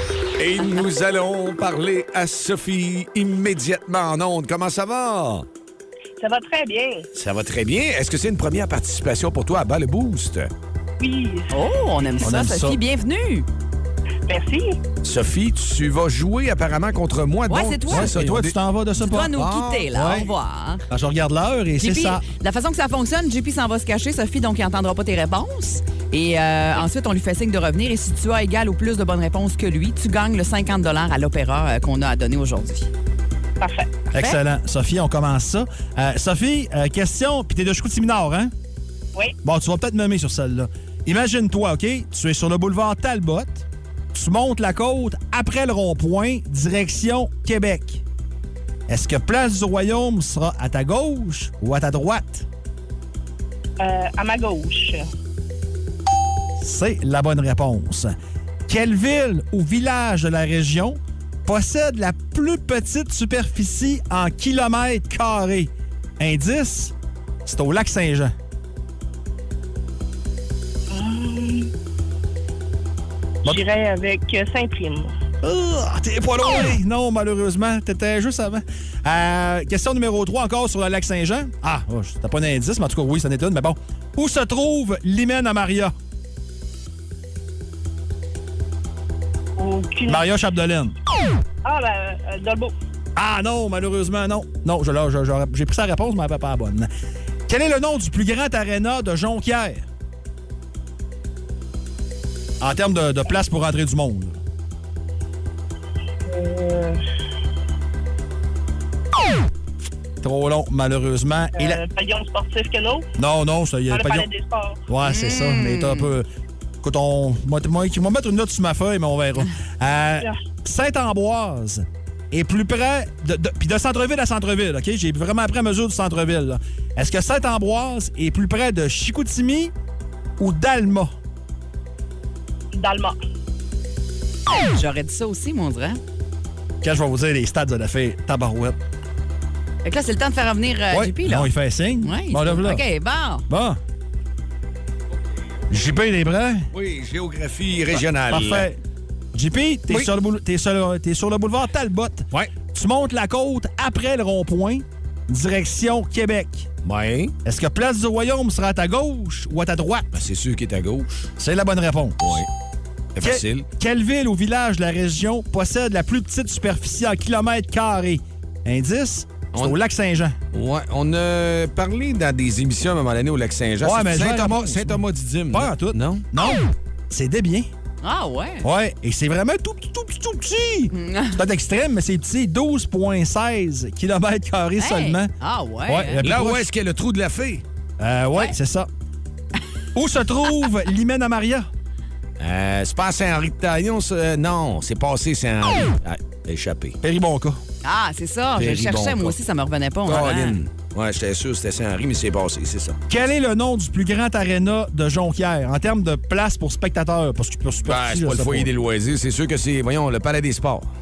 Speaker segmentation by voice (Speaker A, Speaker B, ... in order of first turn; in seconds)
Speaker A: 0.4-5.5, 7.1-10.5, 15.0-18.6, 19.3-19.9, 146.7-148.7, 156.8-157.3, 160.1-161.3, 162.2-162.5, 163.2-163.7, 170.5-176.2, 186.2-187.6, 192.4-197.0, 198.6-199.4, 200.1-203.0, 207.8-210.9
Speaker B: 6.2-7.1, 11.0-11.5, 14.3-14.8, 33.6-34.0, 53.8-55.1, 70.9-71.7, 73.5-75.1, 89.6-90.3, 91.6-92.7, 106.3-107.0, 111.5-113.1, 113.9-114.8, 132.7-133.2
Speaker C: 11.5-13.5, 17.5-18.1, 19.0-20.8, 21.8-32.9, 115.0-116.1, 134.5-136.0, 139.8-143.4, 178.0-178.7, 180.9-181.4, 184.8-186.2, 197.8-200.6
Speaker D: 12.2-12.8, 17.9-19.4, 19.9-20.3, 20.9-22.2, 34.1-38.5, 39.4-48.0, 48.9-52.5, 56.6-58.1, 58.7-66.9, 67.5-68.3, 75.4-85.9, 90.1-91.0, 93.2-96.9, 97.5-99.9, 102.6-104.4, 110.2-111.8, 113.2-114.3, 114.9-116.3, 116.8-129.7, 130.4-131.2, 136.8-138.8, 140.9-142.8, 143.5-143.8, 145.7-146.7, 147.9-148.8, 149.3-156.7, 157.4-160.2, 161.4-162.4, 163.2-170.4, 173.8-177.7, 178.6-185.3, 185.8-186.7, 188.0-188.9, 189.9-191.7, 197.0-197.6, 203.1-208.7